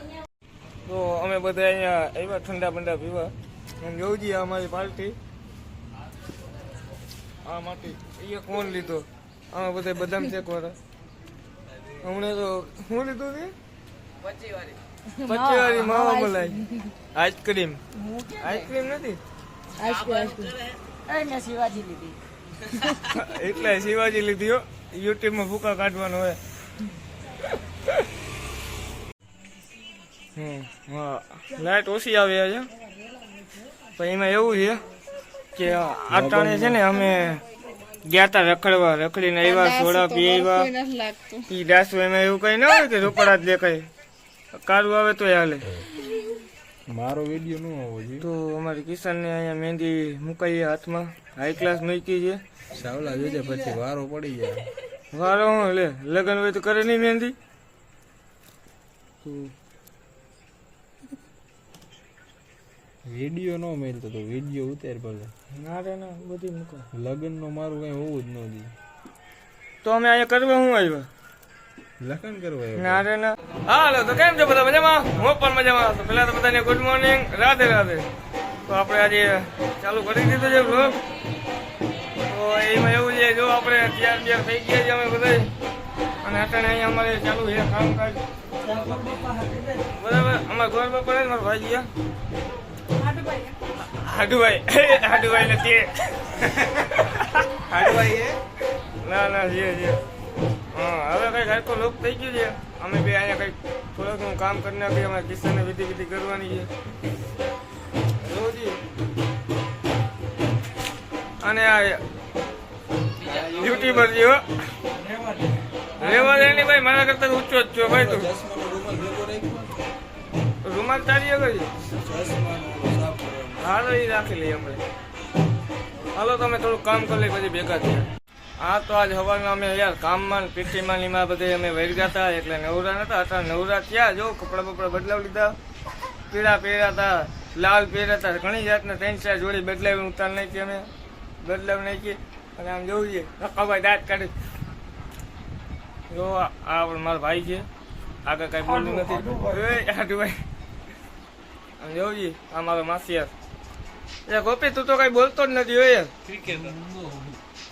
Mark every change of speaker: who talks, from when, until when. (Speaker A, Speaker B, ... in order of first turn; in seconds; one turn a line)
Speaker A: 0.9-5.2
Speaker A: 7.5-10.8
Speaker A: 12.0-13.5
Speaker A: 15.3-16.6
Speaker B: 15.3-16.5
Speaker A: 17.1-17.8
Speaker B: 18.0-18.4
Speaker A: 18.4-19.2
Speaker B: 19.8-22.2
Speaker A: 23.1-26.4
Speaker A: 30.4-32.7
Speaker A: 34.0-34.8
Speaker A: 35.5-37.4
Speaker C: 36.1-36.8
Speaker A: 38.0-40.7
Speaker A: 41.5-43.9
Speaker A: 44.5-45.8
Speaker C: 46.9-48.2
Speaker A: 48.2-52.4
Speaker C: 52.7-54.7
Speaker A: 55.1-57.4
Speaker A: 59.2-59.5
Speaker C: 63.1-65.3
Speaker A: 65.5-66.9
Speaker C: 67.0-68.7
Speaker A: 69.8-71.1
Speaker C: 72.0-73.0
Speaker A: 72.8-78.1
Speaker A: 78.7-81.0
Speaker A: 82.3-85.5
Speaker A: 86.2-88.2
Speaker B: 88.8-89.6
Speaker A: 89.9-91.9
Speaker A: 93.8-98.1
Speaker A: 99.0-100.0
Speaker A: 100.7-106.7
Speaker A: 108.2-108.8
Speaker A: 111.4-112.0
Speaker C: 113.3-114.0
Speaker A: 113.3-114.4
Speaker C: 116.0-116.6
Speaker A: 116.0-118.3
Speaker C: 117.8-119.7
Speaker A: 120.6-121.7
Speaker C: 122.0-123.6
Speaker A: 123.6-124.8
Speaker A: 126.2-128.1
Speaker A: 128.6-135.6
Speaker A: 136.3-140.9
Speaker A: 141.4-144.3
Speaker A: 146.1-147.7
Speaker A: 148.2-150.4
Speaker A: 151.8-153.3
Speaker A: 154.3-156.1
Speaker C: 156.3-157.2